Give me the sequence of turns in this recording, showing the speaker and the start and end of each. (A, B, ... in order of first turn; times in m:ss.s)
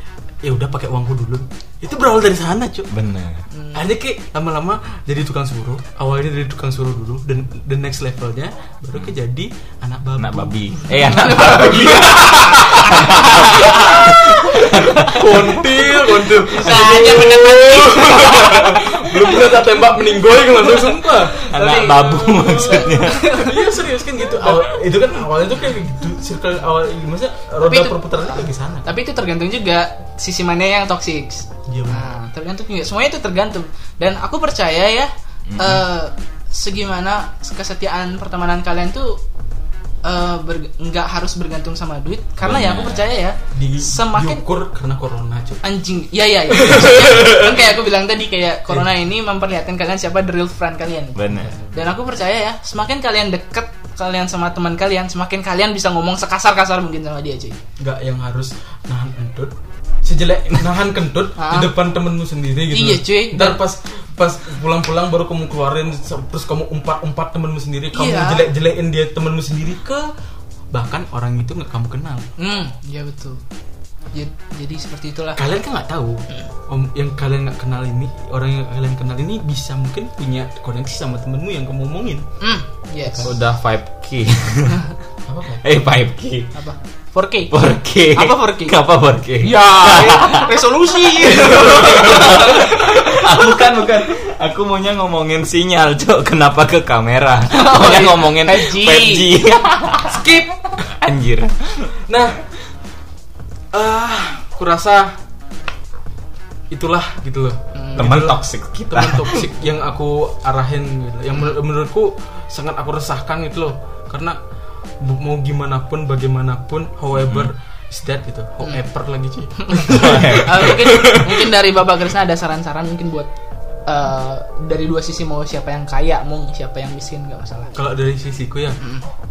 0:00.4-0:02.9 A
0:02.9-0:03.4 B
0:03.5-0:03.8 C
0:03.7-0:21.5 A
0:10.2-0:15.5 B
0:11.0-0:15.5 C
0:16.3-0:19.6 C
0:20.4-0:23.6 C
0:21.5-0:23.5 B
0:22.3-0:28.9 A
0:27.6-0:39.2 C
0:31.7-0:32.1 A
0:35.5-0:35.8 B
0:40.0-0:44.4 C
0:42.4-0:43.1 B
0:43.5-0:45.6 A
0:45.6-0:57.6 C
0:46.5-0:47.7 A
0:51.2-0:51.6 B
0:51.3-0:52.0 A
0:57.8-1:10.1 A
1:01.4-1:01.7 C
1:02.7-1:03.6 C
1:07.9-1:08.5 C
1:10.7-1:12.3 A
1:12.4-1:13.4 C
1:14.1-1:15.4 C
1:15.4-1:22.3 A
1:22.4-1:23.3 C
1:23.1-1:23.4 A
1:23.2-1:24.8 B
1:25.3-1:25.7 A
1:25.6-1:26.5 B
1:26.5-1:28.8 C
1:27.5-1:30.5 B
1:29.4-1:33.0 C
1:31.2-1:40.2 B
1:37.5-1:39.3 C
1:40.1-1:40.9 A
1:40.8-1:41.9 B
1:42.1-1:42.4 A
1:43.7-1:45.2 A
1:46.7-1:54.4 A
1:47.7-1:48.0 C
1:48.0-1:49.4 B
1:55.0-2:01.2 A
1:57.2-1:57.5 B
1:59.6-2:03.3 C
1:59.9-2:01.4 B
2:03.9-2:07.8 C
2:07.8-2:08.8 A
2:08.8-2:09.1 C